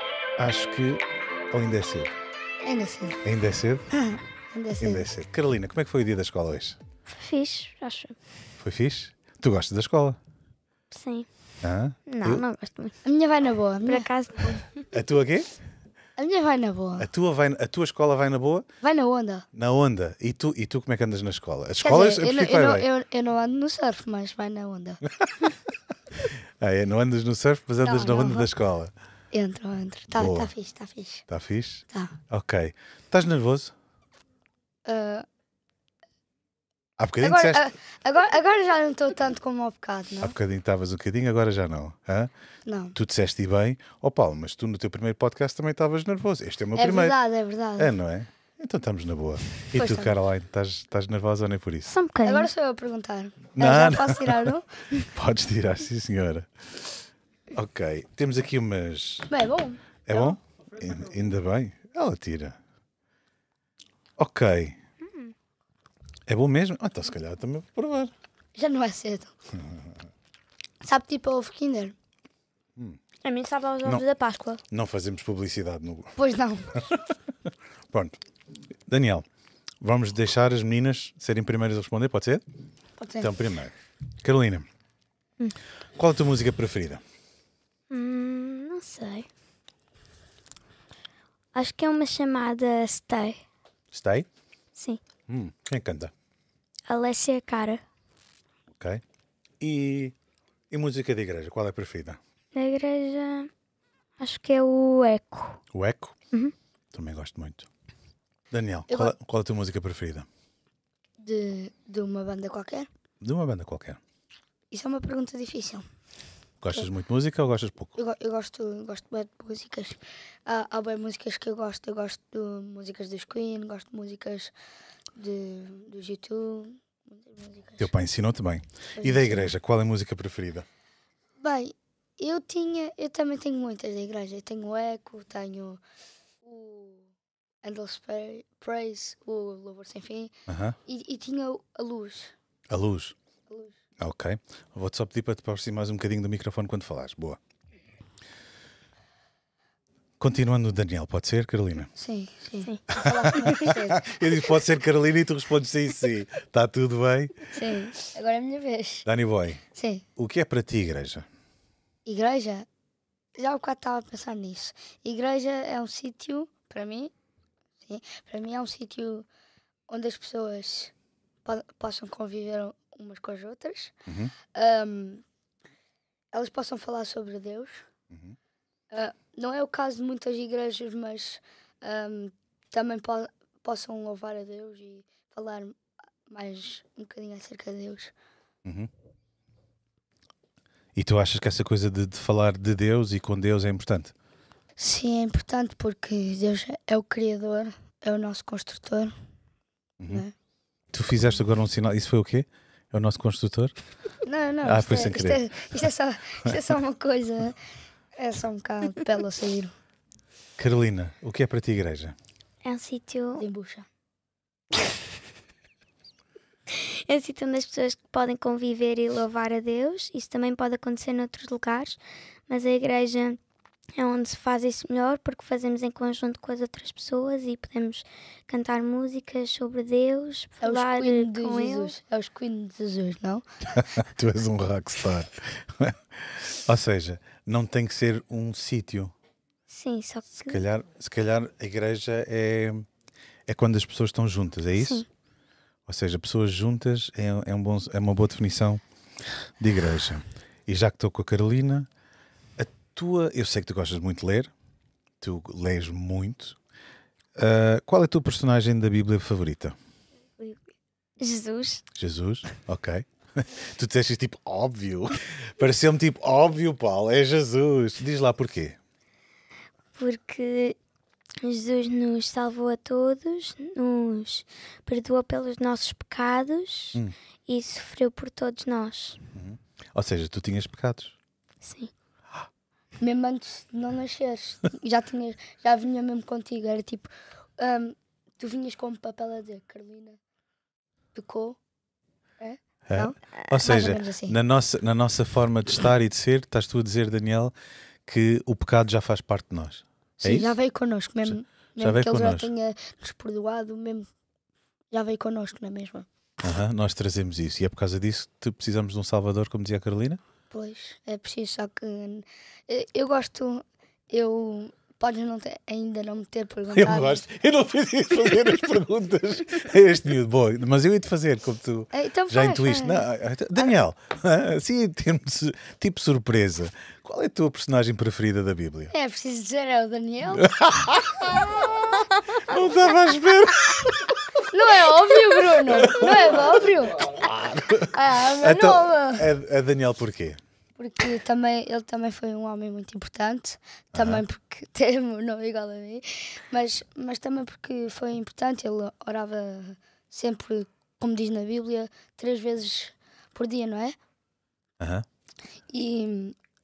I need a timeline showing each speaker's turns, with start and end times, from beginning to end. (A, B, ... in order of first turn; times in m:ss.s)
0:00.4-0:02.2 A
0:02.6-0:03.2 B
0:03.2-0:03.9 A
0:03.9-0:05.1 B
0:04.8-0:06.8 A
0:07.1-0:08.2 C
0:08.6-0:10.2 A
0:10.9-0:11.3 C
0:11.6-0:12.4 A
0:12.1-0:13.0 C
0:13.0-0:14.1 B
0:13.8-0:14.9 C
0:14.9-0:15.6 A
0:16.2-0:17.1 B
0:17.0-0:18.6 A
0:18.8-0:19.5 B
0:19.5-0:22.9 A
0:21.8-0:25.0 B
0:26.6-0:28.9 A
0:27.8-0:28.5 B
0:29.3-0:31.2 B
0:30.2-0:30.5 A
0:31.3-0:33.7 A
0:31.9-0:32.2 B
0:34.8-0:35.3 B
0:37.0-0:37.7 A
0:37.2-0:40.3 B
0:40.2-0:42.3 A
0:42.7-0:43.0 B
0:43.0-0:47.2 A
0:46.8-0:47.9 B
0:47.8-0:51.9 A
0:49.7-0:50.2 B
0:51.8-0:52.5 C
0:52.2-0:54.7 B
0:53.6-0:54.5 A
0:55.0-0:56.5 A
0:57.5-0:59.3 A
0:59.3-1:00.4 B
1:00.1-1:02.6 A
1:04.2-1:04.8 A
1:05.0-1:05.4 C
1:06.3-1:08.1 A
1:08.6-1:09.3 B
1:10.8-1:12.0 B
1:13.2-1:14.6 C
1:14.7-1:16.2 A
1:16.2-1:16.9 B
1:17.9-1:18.2 A
1:18.9-1:19.3 A
1:19.8-1:22.4 A
1:23.0-1:23.3 B
1:23.2-1:24.7 A
1:26.0-1:27.0 A
1:27.9-1:29.3 C
1:31.6-1:33.4 C
1:33.9-1:34.3 A
1:34.8-1:35.0 C
1:35.3-1:36.1 A
1:36.9-1:37.8 C
1:38.8-1:39.0 A
1:39.6-1:40.2 A
1:40.7-1:42.2 A
1:42.5-1:43.5 C
1:44.2-1:45.6 C
1:45.7-1:46.2 A
1:46.9-1:47.7 A
1:48.5-1:50.3 A
1:48.9-1:49.1 B
1:51.2-1:52.9 B
1:53.2-1:54.0 A
1:54.7-1:55.8 B
1:56.6-1:57.9 A
1:58.0-2:04.5 B
2:05.2-2:07.9 B
2:07.8-2:10.7 A
2:09.0-2:09.5 B
2:11.4-2:15.8 B
2:16.4-2:17.1 B
2:17.6-2:20.3 B
2:20.5-2:20.8 A
2:20.9-2:22.3 B
2:22.7-2:23.2 A
2:23.5-2:23.8 B
2:24.0-2:27.4 A
2:30.2-2:31.9 A
2:32.0-2:34.0 B
2:33.0-2:37.5 A
2:33.4-2:33.7 C
2:37.5-2:39.1 B
2:39.0-2:39.6 A
2:39.8-2:40.0 B
2:40.2-2:41.3 A
2:42.0-2:42.7 B
2:43.4-2:47.1 B
2:47.9-2:49.3 B
2:49.9-2:50.9 B
2:51.4-2:53.9 B
2:54.1-2:54.3 A
2:54.5-2:55.2 B
2:56.3-2:57.8 B
2:58.1-2:58.4 A
2:58.9-3:05.8 B
3:06.3-3:08.1 B
3:08.6-3:08.9 A
3:11.0-3:14.1 A
3:14.8-3:19.1 B
3:20.0-3:20.2 A
3:20.9-3:23.7 A
3:24.2-3:27.6 B
3:24.6-3:25.5 A
3:28.2-3:29.7 B
3:30.6-3:32.2 A
3:32.6-3:33.4 C
3:33.4-3:33.9 B
3:36.7-3:42.0 C
3:42.5-3:43.4 C
3:44.0-3:52.0 C
3:50.6-3:53.5 B
3:54.0-3:59.1 A
3:59.7-4:00.6 C
4:00.4-4:02.9 A
4:03.5-4:05.0 A
4:04.8-4:05.1 C
4:05.9-4:08.8 A
4:09.6-4:11.9 A
4:12.6-4:14.5 A
4:15.2-4:16.6 A
4:17.4-4:19.8 A
4:21.2-4:21.8 C
4:22.0-4:28.8 A
4:30.0-4:30.8 C
4:31.4-4:39.2 C
4:39.3-4:41.2 A
4:41.6-4:41.9 C
4:43.0-4:50.2 B
4:51.1-4:51.6 B
4:52.4-4:54.4 B
4:52.9-4:57.5 A
4:58.1-5:00.5 A
5:00.2-5:04.1 B
5:01.3-5:02.5 A
5:04.9-5:06.1 B
5:06.4-5:10.2 A
5:10.5-5:17.2 B
5:16.7-5:28.9 A
5:21.9-5:23.1 B
5:28.9-5:30.5 B
5:30.5-5:31.6 A
5:32.3-5:34.1 A
5:34.5-5:39.3 B
5:37.1-5:40.4 A
5:40.8-5:54.0 B
5:43.9-5:44.2 A
5:54.8-5:55.0 A
5:55.7-5:56.4 B